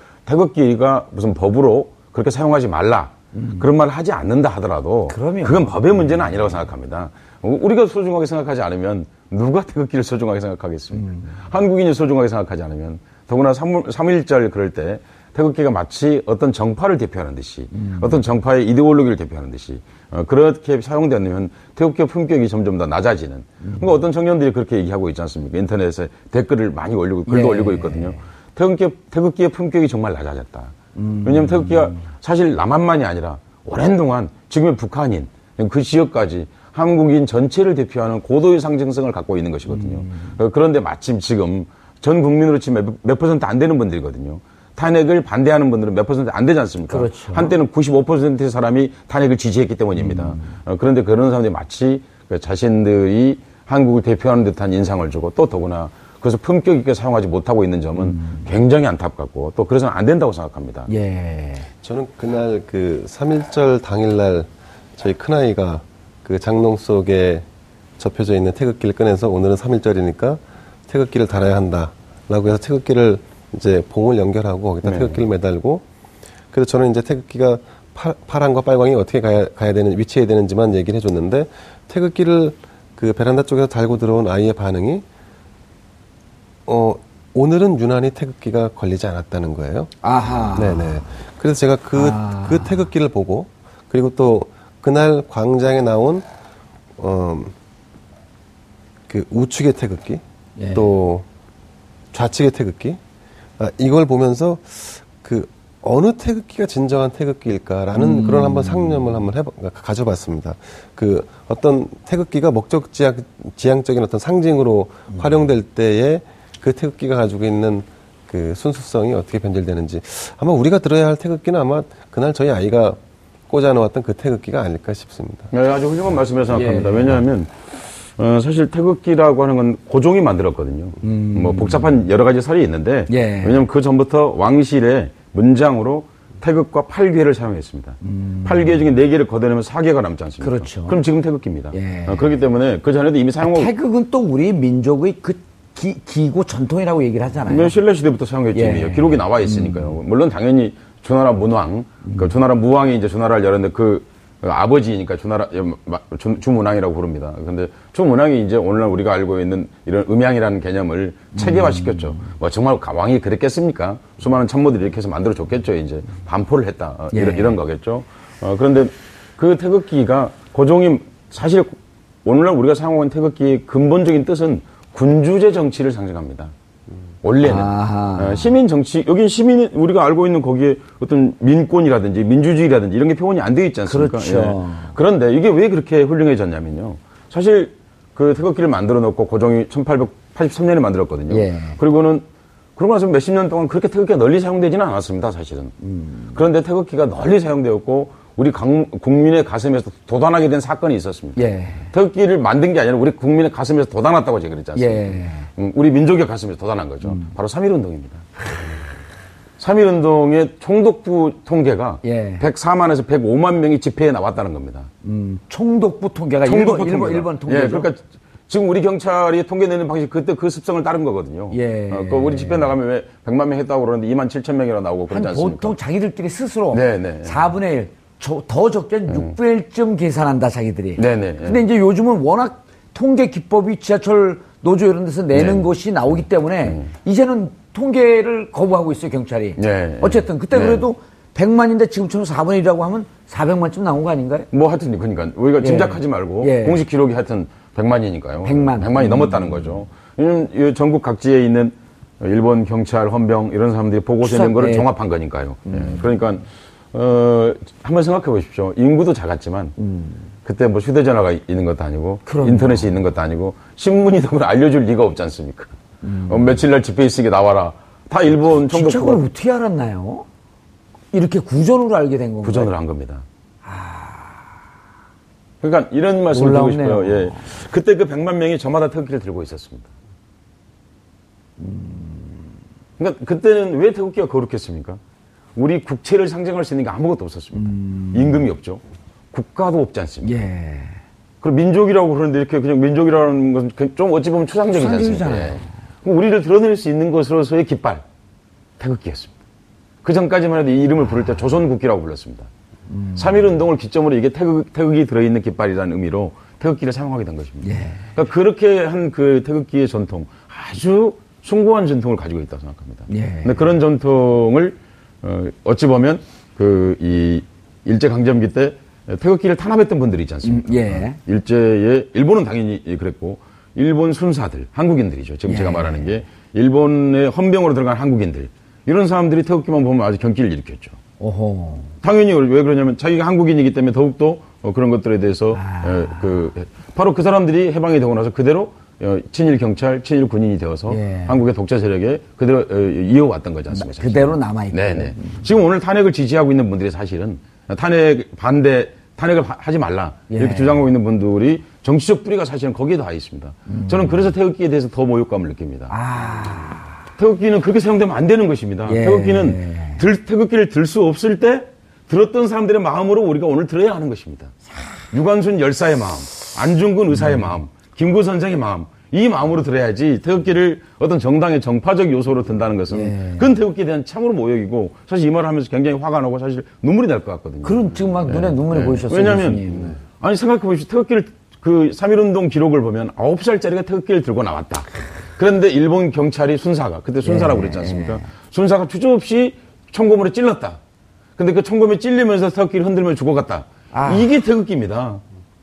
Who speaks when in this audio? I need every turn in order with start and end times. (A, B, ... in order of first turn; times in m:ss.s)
0:00.2-1:00.9 A
0:03.3-0:03.7 B
0:05.1-0:05.7 B
0:10.9-0:11.4 B
0:17.7-0:18.2 B
0:23.6-0:24.0 B
0:27.3-0:28.2 B
0:31.0-0:31.9 B
0:39.7-0:40.3 B
0:46.9-0:47.6 B
0:50.0-0:50.6 B
0:58.0-0:58.5 B
1:00.9-1:01.7 B
1:01.8-1:07.4 C
1:08.0-1:15.8 C
1:16.5-1:25.0 C
1:26.6-1:29.9 C
1:30.0-1:31.0 B
1:30.5-1:36.3 C
1:32.0-1:32.9 B
1:37.0-1:37.5 C
1:39.1-1:41.2 C
1:40.6-1:40.9 B
1:42.1-1:43.0 C
1:43.6-2:05.5 C
1:47.9-1:49.2 B
2:05.5-2:07.5 A
2:06.5-2:07.2 B
2:08.2-2:23.7 A
2:11.0-2:12.0 B
2:13.1-2:13.6 B
2:18.0-2:18.8 B
2:20.4-2:21.0 B
2:21.7-2:22.4 B
2:23.4-2:27.8 B
2:27.5-2:56.5 A
2:28.5-2:30.0 B
2:32.0-2:32.3 B
2:41.3-2:42.2 B
2:47.1-2:47.6 B
2:57.2-3:12.2 A
2:57.4-2:58.5 B
3:03.9-3:04.9 B
3:11.3-3:11.8 B
3:12.8-3:15.7 A
3:15.8-3:16.4 B
3:16.3-3:28.2 A
3:21.4-3:21.9 B
3:24.8-3:25.5 B
3:27.0-3:27.3 B
3:29.6-3:34.9 A
3:32.0-3:32.4 B
3:35.0-3:37.9 B
3:36.4-3:45.8 A
3:41.5-3:42.8 B
3:45.1-4:04.5 B
3:46.7-3:47.4 A
3:51.0-3:51.6 A
3:55.3-3:55.7 A
3:59.6-4:00.9 A
4:04.5-4:19.8 A
4:05.6-4:06.8 B
4:08.4-4:09.8 B
4:14.2-4:14.9 B
4:15.6-4:16.1 B
4:19.8-4:20.2 B
4:20.4-4:25.8 A
4:22.3-4:22.9 B
4:26.0-4:26.6 B
4:26.3-4:29.2 A
4:28.7-4:30.2 B
4:31.1-4:32.7 B
4:32.4-4:33.2 A
4:33.6-4:34.5 B
4:35.6-4:39.9 A
4:36.3-4:37.5 B
4:41.6-4:42.5 B
4:43.0-4:45.0 A
4:45.6-4:50.4 A
4:47.5-4:48.4 B
4:50.2-4:51.0 B
4:51.4-4:58.0 A
4:54.7-4:55.7 B
4:58.8-4:59.3 A
5:00.0-5:02.5 A
5:02.9-5:03.4 B
5:03.1-5:31.0 A
5:07.6-5:08.0 B
5:13.1-5:13.6 B
5:20.4-5:21.2 B
5:25.5-5:26.1 B
5:31.2-5:31.9 B
5:32.0-5:55.9 A
5:35.5-5:36.3 B
5:40.9-5:41.4 B
5:43.7-5:45.4 B
5:50.3-5:50.8 B
5:53.7-5:54.3 B
5:55.9-5:56.9 B
5:57.2-6:30.8 A
5:58.8-6:00.0 B
6:07.2-6:07.4 B
6:12.9-6:13.5 B
6:17.6-6:20.0 B
6:27.2-6:28.2 B
6:31.4-6:35.2 A
6:33.9-6:34.3 B